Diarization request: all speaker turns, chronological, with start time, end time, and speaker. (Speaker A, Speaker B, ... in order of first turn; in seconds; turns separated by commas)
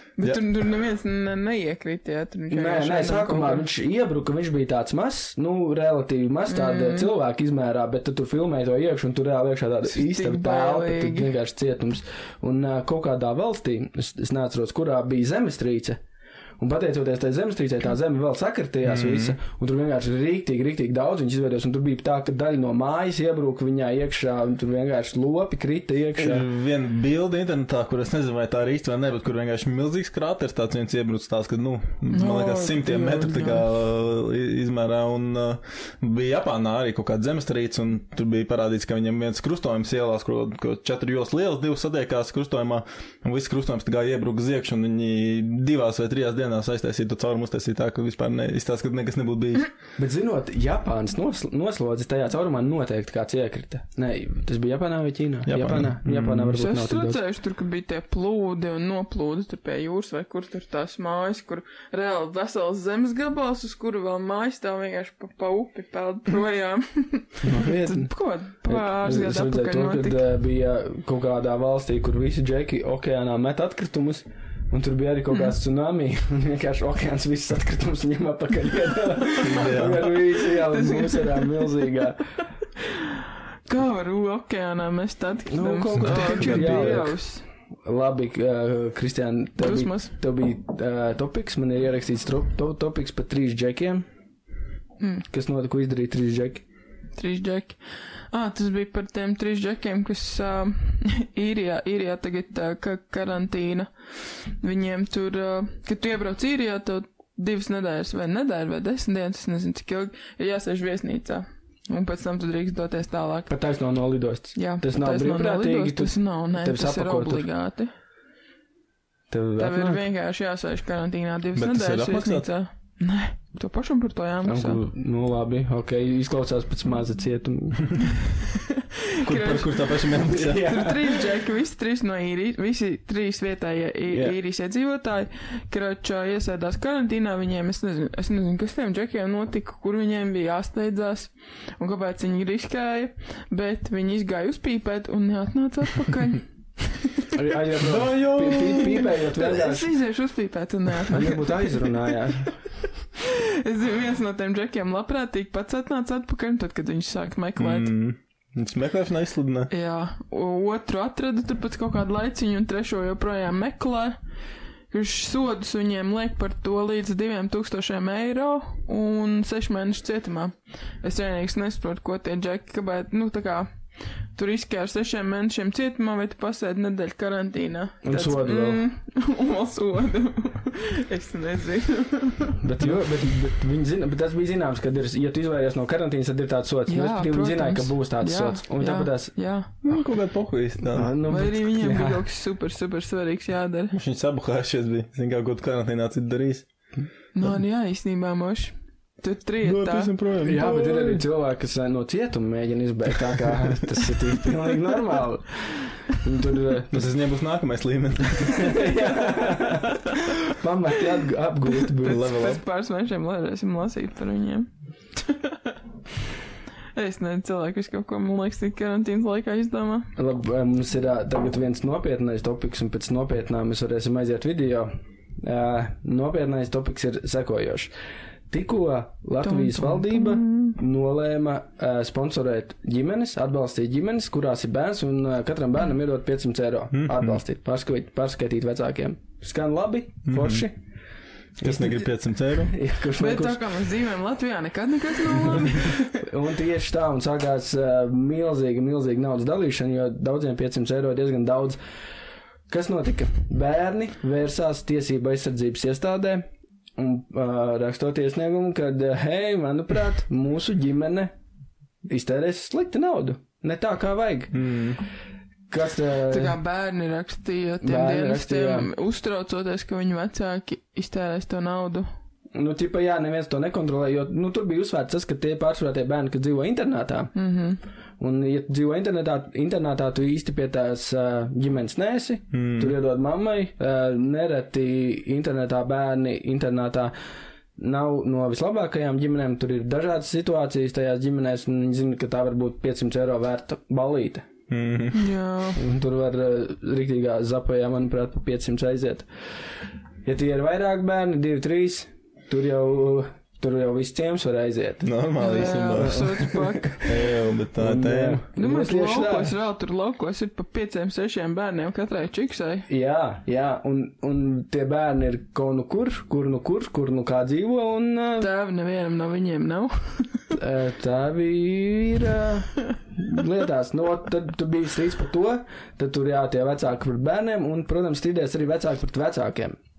Speaker A: 0.2-3.7, Speaker B: 2.5-16.0, Speaker A: 6.5-7.1, Speaker A: 9.9-11.3, Speaker B: 16.6-26.5, Speaker C: 18.9-19.4, Speaker C: 26.2-49.7, Speaker A: 32.1-33.6, Speaker B: 50.0-57.2, Speaker C: 55.5-56.6, Speaker A: 56.5-70.2, Speaker B: 67.4-68.1, Speaker B: 68.7-82.2, Speaker C: 79.4-80.0, Speaker A: 80.3-81.9, Speaker A: 82.8-87.4, Speaker B: 85.5-87.2, Speaker C: 86.0-87.0, Speaker B: 87.8-94.0, Speaker A: 89.6-90.1, Speaker A: 95.0-95.2, Speaker B: 95.3-96.6, Speaker A: 97.2-97.8, Speaker A: 98.3-103.9, Speaker A: 104.4-113.5, Speaker B: 113.5-117.5, Speaker A: 114.6-117.9, Speaker B: 119.3-120.0, Speaker A: 119.6-124.8, Speaker C: 121.6-122.5, Speaker B: 124.5-128.0, Speaker A: 128.5-147.4, Speaker C: 129.2-131.0, Speaker B: 130.3-131.1, Speaker B: 134.1-134.4, Speaker B: 147.3-149.9, Speaker C: 147.8-148.9, Speaker A: 148.3-152.2, Speaker B: 151.1-152.5, Speaker A: 153.2-157.9, Speaker C: 157.6-159.7, Speaker A: 159.7-164.2, Speaker A: 164.9-173.7, Speaker A: 174.3-182.6, Speaker B: 178.0-178.8, Speaker B: 182.6-189.3, Speaker A: 186.9-190.0, Speaker C: 189.8-191.2, Speaker B: 190.9-192.2, Speaker A: 191.3-193.9, Speaker C: 193.9-196.7, Speaker A: 197.3-200.1, Speaker C: 199.6-201.2, Speaker B: 200.4-207.1, Speaker C: 206.9-208.9, Speaker B: 208.4-212.3, Speaker A: 211.8-215.6, Speaker C: 212.0-212.6, Speaker A: 216.9-220.1, Speaker B: 220.2-224.9, Speaker B: 225.4-227.9, Speaker B: 228.5-240.8, Speaker A: 229.4-230.8, Speaker C: 236.9-237.4, Speaker C: 240.3-240.7, Speaker C: 241.6-242.8, Speaker B: 241.6-242.0, Speaker B: 242.7-243.6, Speaker A: 243.2-246.2, Speaker B: 245.8-251.8, Speaker B: 252.7-261.3, Speaker B: 262.1-264.5, Speaker C: 264.5-265.0, Speaker B: 265.7-266.6, Speaker A: 266.3-272.1, Speaker B: 267.8-268.9, Speaker B: 272.5-277.3, Speaker A: 277.4-277.8, Speaker B: 278.2-287.1, Speaker C: 282.5-282.9, Speaker B: 287.8-294.5, Speaker C: 294.7-295.3, Speaker A: 295.1-295.8, Speaker B: 295.8-299.3, Speaker B: 300.2-305.1, Speaker C: 305.0-306.4, Speaker A: 305.4-307.2, Speaker B: 305.9-307.0, Speaker C: 307.0-308.4, Speaker B: 307.8-309.6, Speaker A: 308.6-312.9, Speaker B: 312.9-318.5, Speaker A: 318.4-320.4, Speaker B: 320.5-329.8